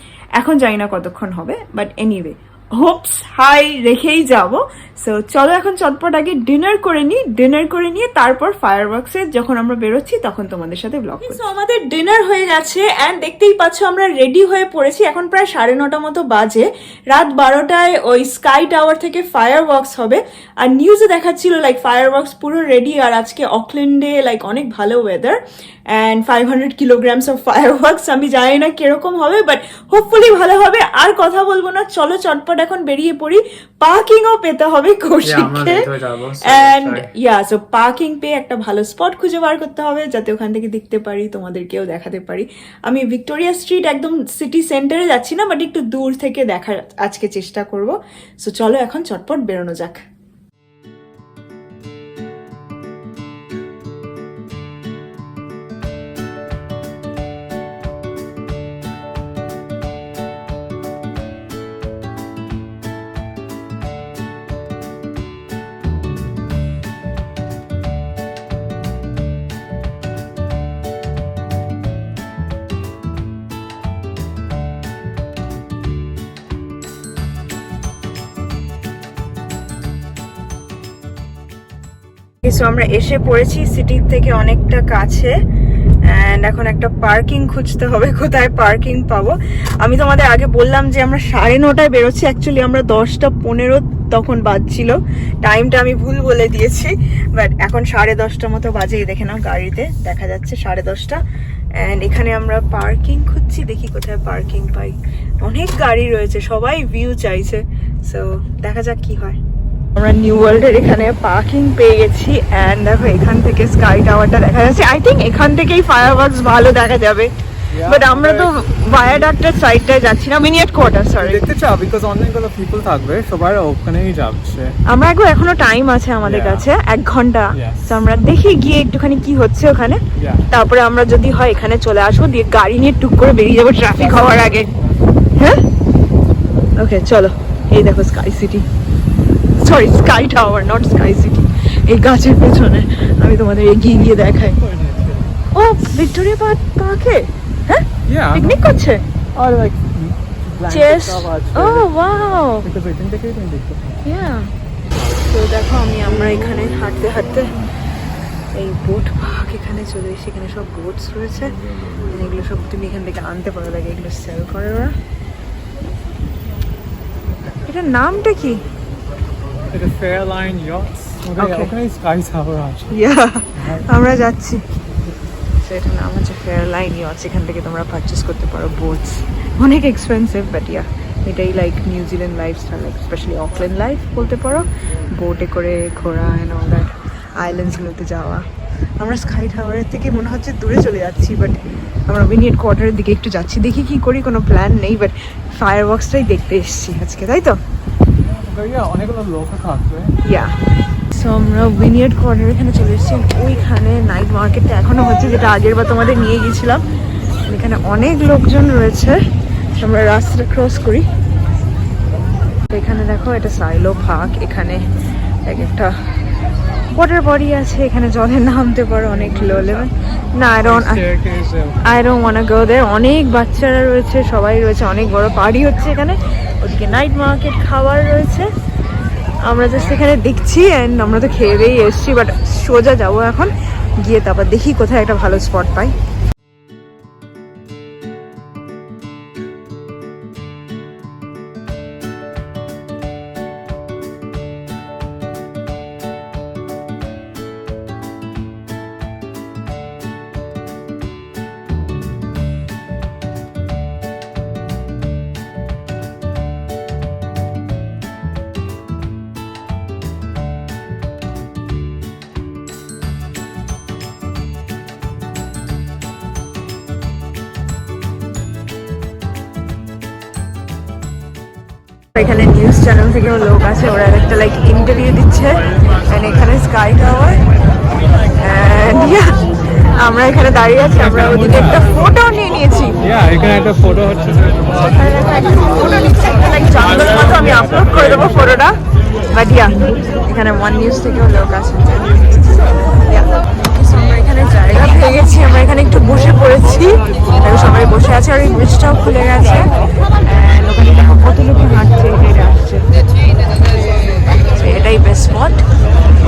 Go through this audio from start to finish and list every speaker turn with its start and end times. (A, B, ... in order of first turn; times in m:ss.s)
0:00.4-0:25.4 A
0:25.9-0:35.9 A
0:35.2-0:37.1 B
0:36.4-0:50.0 A
1:22.4-1:25.3 A
1:26.1-1:41.2 A
1:41.8-1:49.4 A
1:50.0-1:57.3 A
1:57.7-1:58.5 B
1:57.8-2:01.4 A
2:01.2-2:04.8 B
2:04.9-2:14.7 A
2:06.2-2:06.7 B
2:07.5-2:08.0 B
2:10.2-2:10.5 B
2:15.4-2:15.6 A
2:16.8-2:18.7 A
2:19.6-2:24.6 A
2:24.6-2:25.3 B
2:25.5-2:29.0 A
2:28.1-2:28.7 B
2:29.4-2:31.9 B
2:30.7-2:32.7 A
2:32.6-2:34.0 B
2:34.0-2:34.5 A
2:35.2-2:37.6 A
2:38.5-2:45.0 A
2:47.6-2:48.6 A
2:49.7-2:53.0 B
2:51.4-2:51.7 A
2:52.9-2:54.6 A
2:53.6-2:54.0 B
2:55.6-3:08.5 A
3:09.0-3:17.6 A
3:18.3-3:20.2 B
3:20.2-3:20.6 A
3:21.1-3:26.8 A
3:27.5-3:29.2 A
3:29.8-3:31.1 A
3:32.7-3:34.9 A
3:35.5-3:36.0 A
3:36.9-3:41.0 A
3:39.1-3:39.9 B
3:40.6-3:41.8 B
3:41.8-3:48.5 A
3:49.4-3:56.0 A
4:32.2-4:37.4 A
4:38.4-4:43.0 A
4:41.0-4:42.0 B
4:43.0-4:44.9 B
4:44.8-4:48.8 A
4:47.2-4:48.5 B
4:49.3-4:52.2 A
4:53.1-4:59.7 A
5:00.2-5:02.8 A
5:04.6-5:05.7 A